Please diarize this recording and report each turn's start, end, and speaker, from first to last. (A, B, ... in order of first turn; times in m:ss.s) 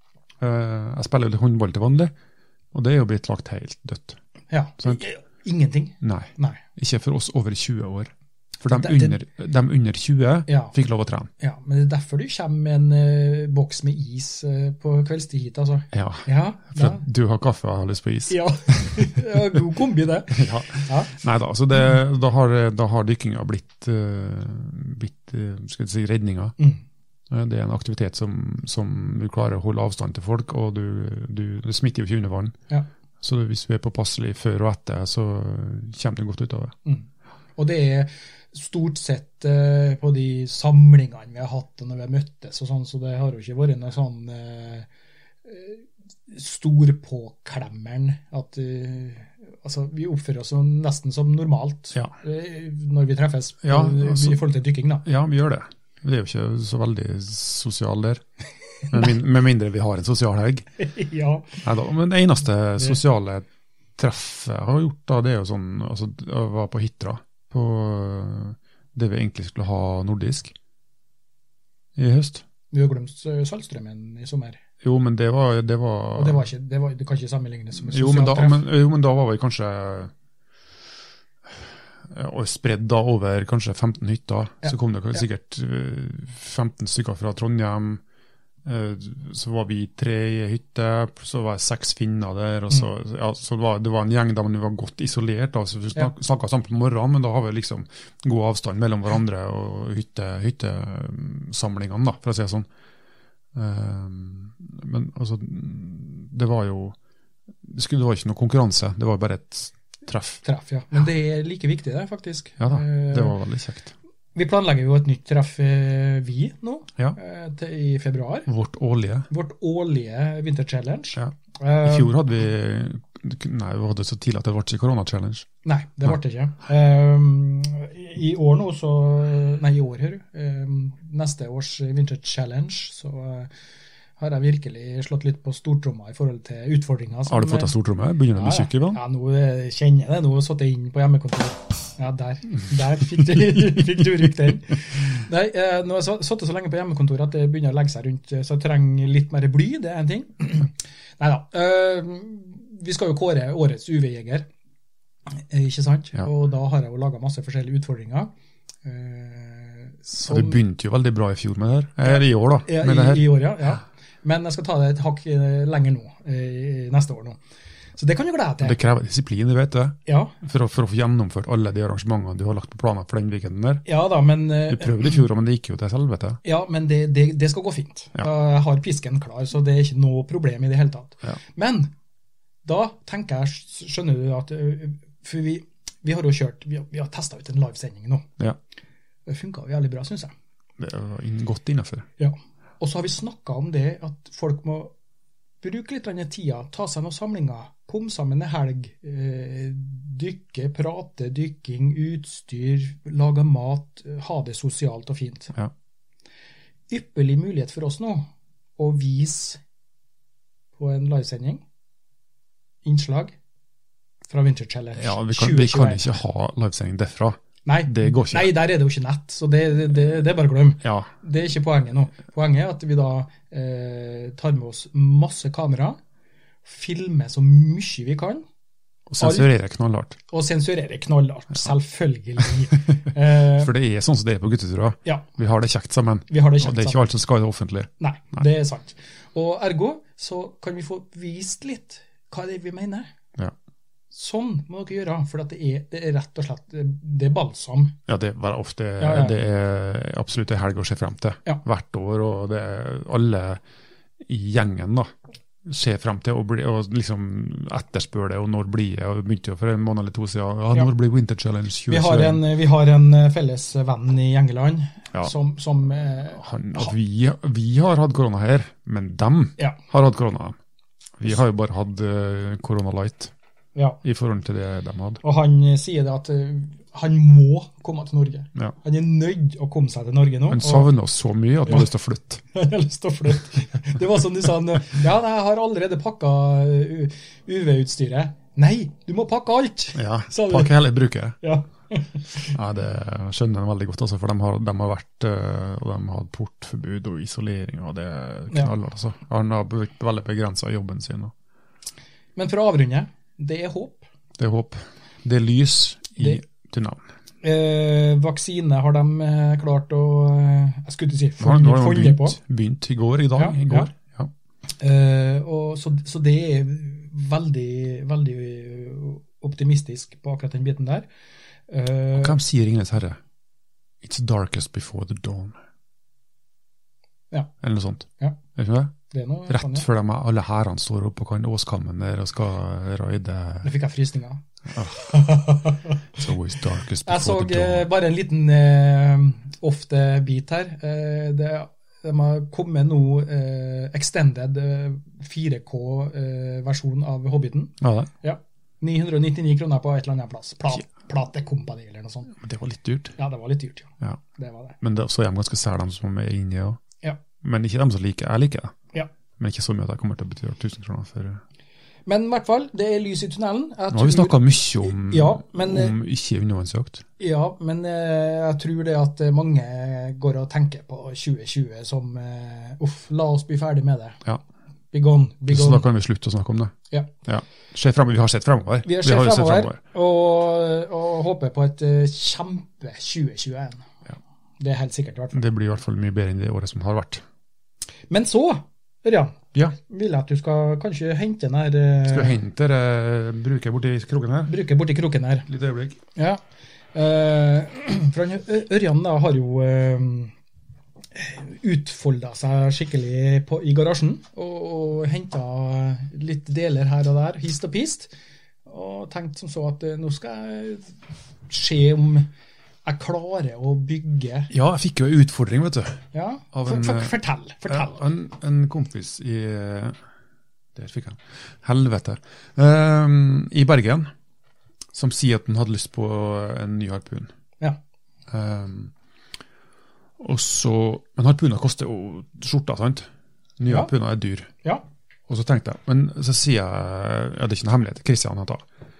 0:00.4-0:02.1 A
0:02.7-0:04.2 A
0:04.5-0:06.6 B
0:06.0-0:11.3 A
0:08.7-0:09.2 B
0:10.5-0:10.7 B
0:11.4-0:17.0 B
0:15.9-0:19.2 A
0:18.3-0:21.1 B
0:20.3-0:26.6 A
0:27.3-0:32.6 A
0:33.2-0:36.7 A
0:36.9-0:44.9 B
0:45.4-0:55.1 B
0:53.6-0:54.4 A
0:55.0-0:58.2 A
0:58.9-1:00.7 A
1:00.8-1:01.6 B
1:01.6-1:03.5 A
1:04.0-1:10.6 A
1:12.0-1:12.4 A
1:12.7-1:14.6 B
1:14.8-1:16.4 A
1:16.2-1:18.6 B
1:17.8-1:20.1 A
1:21.5-1:28.0 A
1:24.6-1:25.2 B
1:28.6-1:42.7 A
1:43.5-1:47.0 A
1:47.6-1:50.4 A
1:50.4-1:53.4 B
1:52.6-1:53.9 A
1:54.4-1:58.5 B
1:58.5-1:59.3 A
1:59.3-2:02.1 B
2:01.2-2:05.5 A
2:05.6-2:13.5 B
2:14.2-2:17.7 B
2:17.3-2:19.0 A
2:18.4-2:34.5 B
2:23.3-2:23.8 A
2:35.3-2:38.3 B
2:38.8-2:40.6 B
2:40.2-2:43.3 A
2:42.0-2:47.4 B
2:48.0-2:48.8 B
2:48.6-2:53.8 A
2:50.1-2:50.4 B
2:53.9-2:55.2 B
2:54.7-2:56.4 A
2:56.4-3:01.9 B
3:02.6-3:08.3 B
3:09.3-3:10.3 B
3:10.8-3:12.1 A
3:12.2-3:14.9 B
3:15.6-3:25.5 B
3:26.9-3:28.3 B
3:28.8-3:29.6 B
3:30.8-3:31.6 B
3:32.8-3:33.4 B
3:34.3-3:36.2 B
3:35.0-3:38.5 A
3:37.6-3:46.0 B
3:40.8-3:41.1 A
3:46.6-3:48.4 B
3:49.1-3:50.2 A
3:49.2-3:49.5 B
3:50.3-3:53.7 B
3:53.5-3:58.5 A
3:56.3-3:57.1 B
3:58.0-4:03.1 B
4:04.1-4:08.0 B
4:08.1-4:13.6 A
4:09.0-4:09.4 B
4:14.2-4:15.1 A
4:15.6-4:22.4 A
4:21.9-4:26.9 B
4:26.4-4:30.6 A
4:31.2-4:33.3 A
4:34.0-4:35.2 A
4:35.2-4:40.9 B
4:40.5-4:42.4 A
4:42.5-4:50.7 B
4:50.0-4:51.4 A
4:51.4-4:52.6 B
4:52.4-5:01.3 A
5:02.4-5:04.1 B
5:04.4-5:07.0 A
5:07.4-5:12.4 B
5:11.4-5:14.3 A
5:13.4-5:13.9 B
5:14.8-5:21.1 B
5:21.7-5:22.4 B
5:22.1-5:23.2 A
5:24.0-5:25.6 A
5:27.6-5:28.9 A
5:29.1-5:29.9 B
5:29.5-5:33.7 A
5:33.6-5:34.4 B
5:34.7-5:35.2 A
5:35.0-5:36.0 B
5:36.1-5:37.9 A
5:37.0-5:52.3 B
5:47.8-5:48.1 A
5:52.3-5:53.2 A
5:53.2-5:54.8 B
5:54.8-5:56.8 A
5:57.4-5:58.8 A
5:59.4-6:01.4 A
6:02.1-6:06.0 B
6:03.9-6:07.0 A
6:07.2-6:14.2 B
6:14.9-6:15.8 B
6:15.5-6:16.7 A
6:17.2-6:19.8 A
6:18.8-6:23.9 B
6:24.6-6:25.4 B
6:25.3-6:27.2 A
6:28.1-6:32.4 B
6:32.1-6:34.5 A
6:34.5-6:35.5 B
6:35.5-6:36.0 A
6:36.2-6:36.4 B
6:36.9-6:40.3 B
6:41.2-6:48.1 B
6:48.7-6:50.9 B
6:51.5-6:52.3 B
6:52.8-6:54.5 B
6:54.5-6:57.1 A
6:56.1-6:58.0 B
6:57.6-7:00.0 A
7:00.8-7:04.1 A
7:04.9-7:07.3 A
7:08.3-7:08.9 A
7:10.2-7:13.1 A
7:13.6-7:14.5 A
7:15.3-7:18.6 A